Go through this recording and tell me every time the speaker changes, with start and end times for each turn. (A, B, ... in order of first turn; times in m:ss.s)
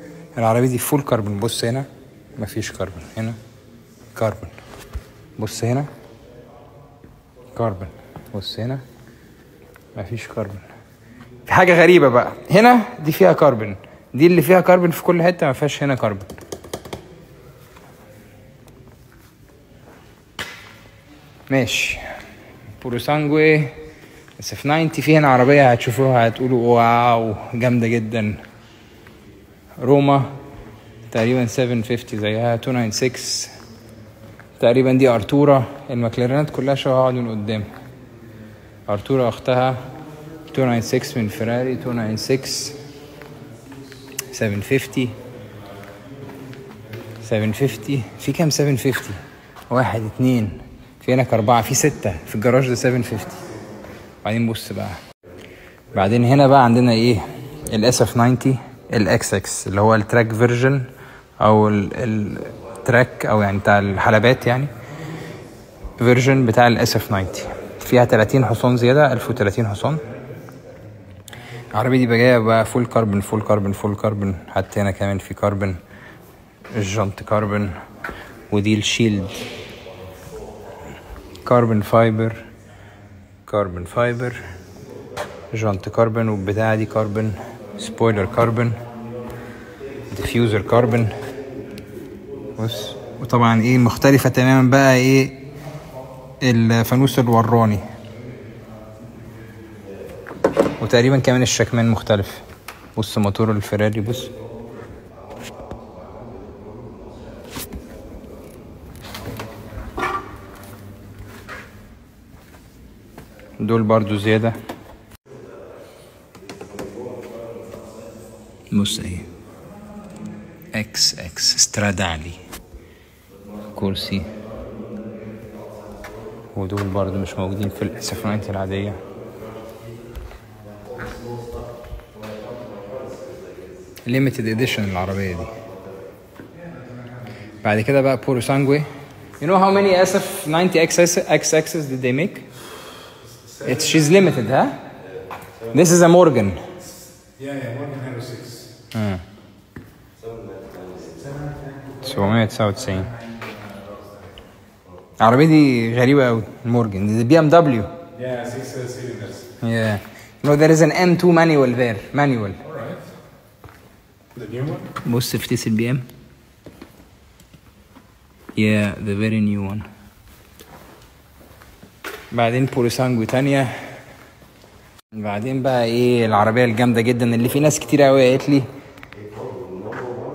0:00.3-0:03.4 A
0:04.1-0:04.6 A
0:05.4-0:05.9 A
0:07.5-0:08.8 A
0:09.9-0:10.7 A
0:11.5-0:16.3 A
0:21.5-0:22.0 A
0:22.8-0:23.8 A
0:24.4-0:28.4 A
0:29.8-0:30.3 A
0:31.1-0:33.5 A
0:34.6-0:37.7 A
0:38.9-0:39.9 A
0:40.5-0:42.8 A
0:44.3-0:45.2 A
0:47.2-0:53.4 A
0:54.2-0:55.0 A
0:55.9-1:00.9 A
1:01.4-1:04.7 A
1:06.0-1:10.0 A
1:11.7-1:15.8 A
1:16.7-1:17.7 A
1:18.5-1:19.4 A
1:21.4-1:22.4 A
1:23.5-1:24.4 A
1:25.5-1:28.8 A
1:30.1-1:31.1 A
1:32.6-1:35.4 A
1:36.4-1:37.8 A
1:40.8-1:42.4 A
1:43.0-1:44.3 A
1:53.6-1:54.6 A
1:58.7-1:59.3 A
2:00.7-2:02.4 A
2:03.7-2:04.3 A
2:06.5-2:09.0 A
2:14.0-2:15.6 A
2:17.6-2:18.9 A
2:19.4-2:22.5 A
2:23.4-2:24.1 B
2:23.6-2:24.8 A
2:25.7-2:26.6 A
2:27.4-2:28.7 B
2:28.9-2:29.2 A
2:31.2-2:31.9 B
2:32.0-2:33.1 A
2:35.2-2:37.9 A
2:38.1-2:39.5 B
2:39.6-2:42.6 A
2:42.6-2:43.1 B
2:44.3-2:44.9 B
2:45.0-2:46.1 A
2:48.6-2:49.9 A
2:52.3-2:53.7 A
2:55.1-2:58.7 A